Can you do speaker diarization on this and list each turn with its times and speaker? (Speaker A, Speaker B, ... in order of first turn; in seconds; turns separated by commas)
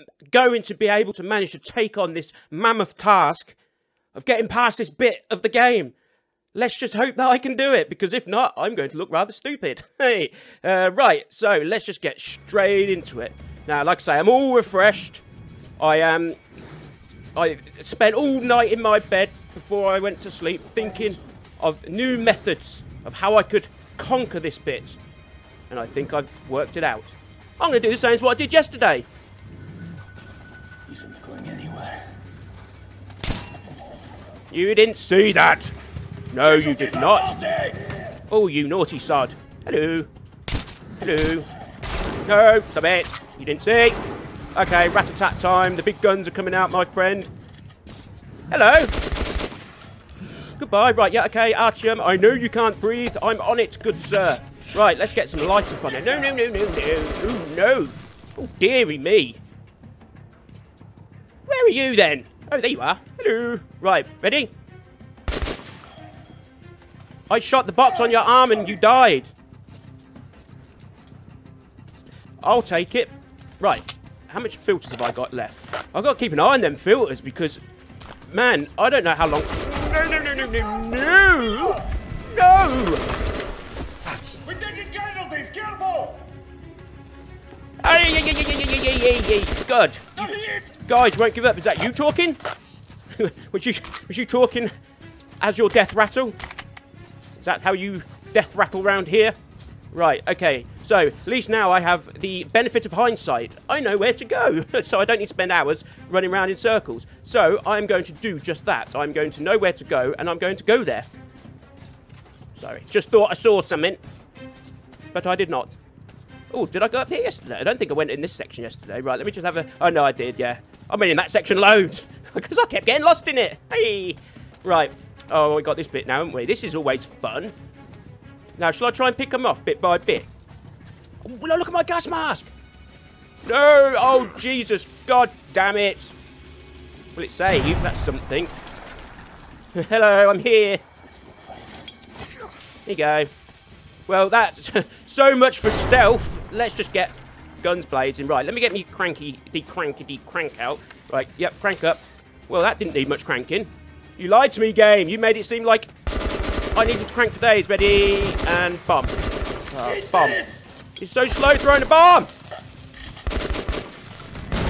Speaker A: 0.3-3.6, Speaker A: 4.2-6.0, Speaker A: 6.5-15.2, Speaker A: 15.8-16.4, Speaker A: 17.4-25.0, Speaker A: 25.7-29.1, Speaker B: 30.9-32.1, Speaker A: 34.5-35.8, Speaker A: 36.3-37.4, Speaker B: 36.6-38.0, Speaker A: 38.3-40.1, Speaker A: 41.0-41.5, Speaker A: 42.3-44.0, Speaker A: 44.5-47.3, Speaker A: 48.5-48.9, Speaker A: 50.6-59.4, Speaker A: 61.5-64.5, Speaker A: 67.3-69.3, Speaker A: 72.4-77.6, Speaker A: 78.3-83.1, Speaker B: 84.4-86.3, Speaker A: 87.8-90.3, Speaker B: 90.3-90.7, Speaker A: 90.8-92.4, Speaker A: 93.2-94.7, Speaker A: 95.4-96.4, Speaker A: 97.4-99.4, Speaker A: 99.9-111.1, Speaker A: 112.6-114.0, Speaker A: 115.1-115.8, Speaker A: 116.5-127.5, Speaker A: 128.6-130.3, Speaker A: 131.2-132.5, Speaker A: 133.4-136.2, Speaker A: 137.2-138.6, Speaker A: 139.7-140.8, Speaker A: 142.9-143.3, Speaker A: 144.1-155.9, Speaker A: 156.7-159.2, Speaker A: 159.7-160.4, Speaker B: 160.0-160.4, Speaker A: 161.0-162.3